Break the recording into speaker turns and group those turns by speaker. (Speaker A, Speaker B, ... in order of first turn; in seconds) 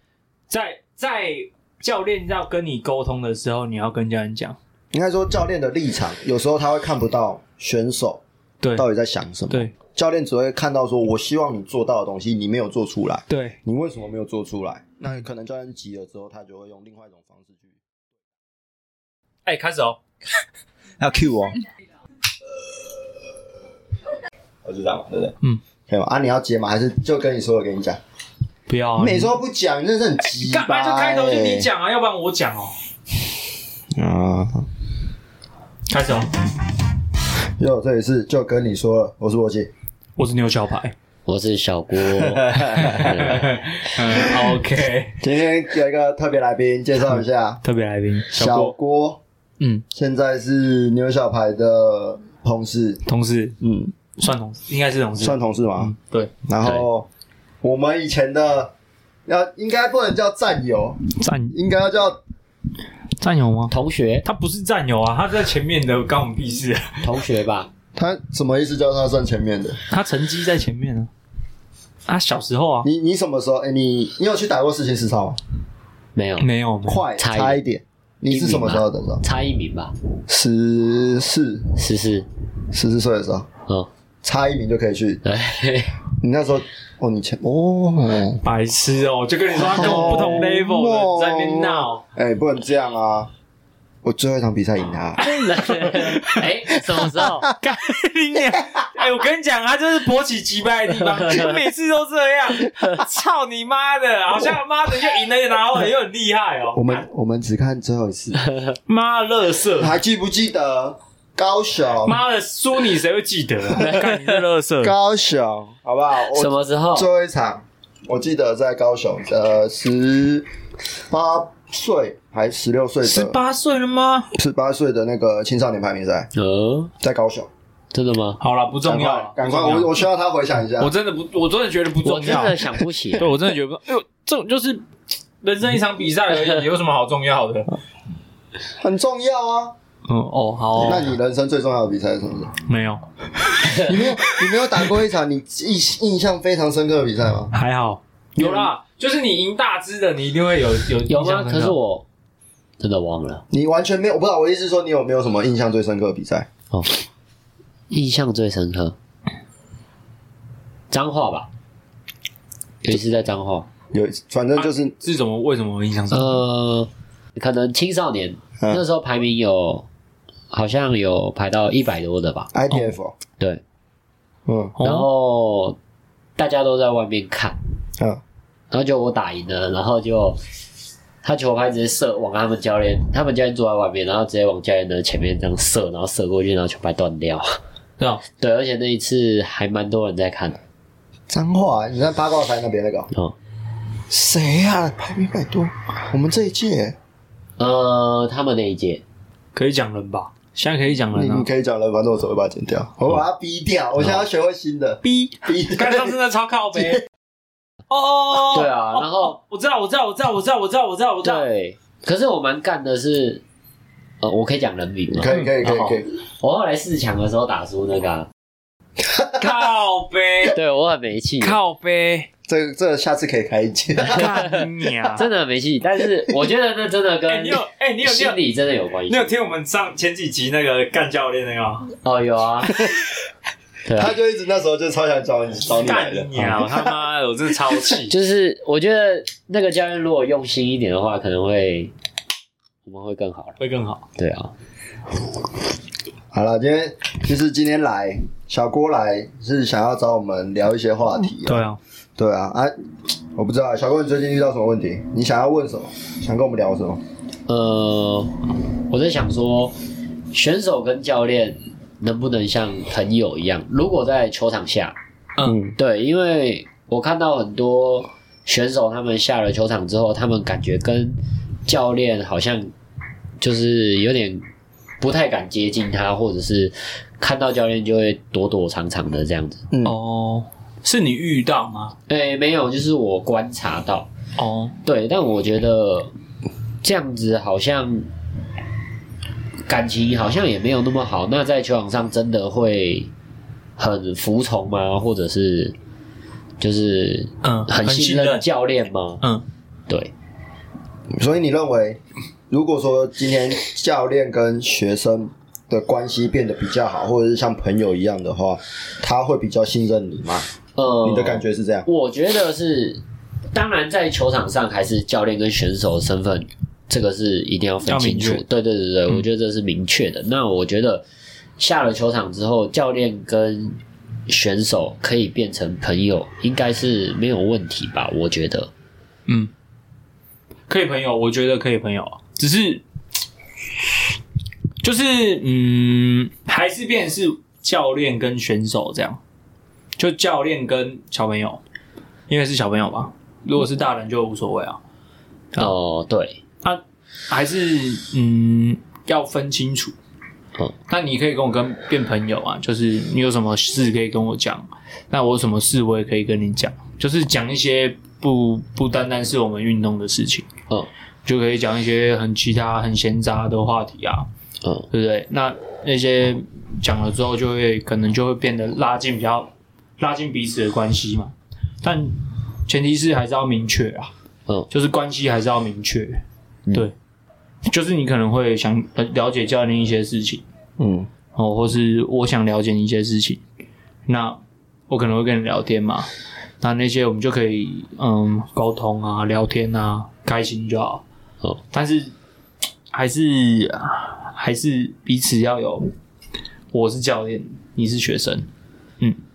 Speaker A: 0.5-4.6, 8.6-8.9, 9.5-9.7, 13.3-13.6, 19.4-20.0, 28.7-29.4, 30.4-32.7, 35.9-36.3, 40.2-40.9, 42.8-45.2, 47.6-48.7, 49.6-49.8, 53.0-53.6, 54.2-56.8, 61.1-61.5, 63.2-67.1, 69.9-71.1, 72.0-72.9, 76.4-77.0, 88.4-92.0, 95.2-96.5, 97.5-107.0, 108.9-110.0, 112.0-114.9, 123.0-124.3, 128.4-130.0, 130.8-134.8, 135.4-137.8, 140.1-141.2, 142.7-144.8, 147.5-151.8, 164.6-166.4, 174.8-175.1, 188.0-188.2, 199.5-201.5, 205.0-207.0, 207.9-211.5, 215.3-216.0, 219.3-220.6, 221.4-222.3, 224.0-225.2, 227.3-228.4, 229.1-231.9, 235.6-238.1, 243.6-244.1, 251.4-251.8, 279.8-281.9, 284.4-284.7, 297.4-298.4, 317.9-318.4, 330.7-332.8, 334.8-339.2, 340.0-341.6, 342.3-344.8, 346.6-349.9, 350.9-360.5, 361.2-364.3, 364.9-374.1, 374.7-376.2, 377.6-380.4, 381.4-383.4, 384.1-386.1, 386.6-391.0, 391.7-392.1, 392.9-395.9, 396.7-398.5
Speaker B: 4.9-8.2, 8.7-17.8, 21.0-21.6, 24.6-25.4, 25.9-28.0, 29.0-31.7, 34.0-34.7, 37.6-39.7, 42.1-43.4, 44.1-44.5, 45.2-47.6, 48.3-49.2, 49.9-53.0, 53.6-54.0, 55.2-55.9, 56.4-57.1, 57.6-58.7, 59.3-62.2, 67.9-69.8, 72.8-75.4, 76.9-79.2, 80.3-81.8, 82.7-83.5, 84.2-85.2, 86.2-88.4, 89.5-93.3, 94.0-95.3, 106.7-108.4, 109.8-112.2, 113.8-114.1, 114.8-120.5, 121.1-123.4, 124.3-126.3, 127.0-127.5, 128.8-130.9, 138.8-139.7, 140.8-142.5, 143.8-147.5, 148.4-148.7, 153.5-156.5, 163.9-164.9, 172.5-173.2, 174.4-174.7, 191.3-193.1, 194.1-197.0, 201.1-206.2, 215.1-216.1, 219.0-219.5, 222.5-224.7, 233.9-236.9, 246.3-251.7, 252.2-252.7, 253.3-257.0, 265.4-265.8, 279.7-279.9, 301.1-310.5, 311.0-311.9, 380.8-381.1
Speaker C: 41.2-43.5, 63.7-64.2, 67.0-67.7, 76.2-76.5, 77.2-77.6, 78.3-79.9, 81.8-82.2, 85.2-86.0, 95.2-97.5, 108.4-108.8, 116.3-117.1, 126.3-126.9, 127.9-128.4, 132.0-133.3, 151.1-152.1, 152.8-153.4, 157.9-158.9, 160.9-161.5, 162.8-163.7, 166.1-169.9, 170.5-172.5, 174.8-175.8, 176.4-177.6, 178.7-180.4, 181.2-187.6, 188.4-190.6, 197.6-199.0, 208.4-209.3, 211.2-213.4, 214.2-215.8, 216.4-218.3, 220.5-221.6, 224.1-224.6, 225.1-229.3, 232.0-232.8, 233.8-234.2, 238.1-241.9, 242.8-243.6, 244.2-244.5, 257.5-259.7, 260.3-264.9, 265.8-272.7, 273.4-274.4, 275.0-279.6, 282.1-284.1, 284.8-286.1, 286.8-288.1, 289.7-293.1, 293.8-295.8, 296.6-299.2, 299.9-300.1, 310.7-313.0, 313.5-321.0, 321.6-328.7, 345.6-346.4, 364.6-364.9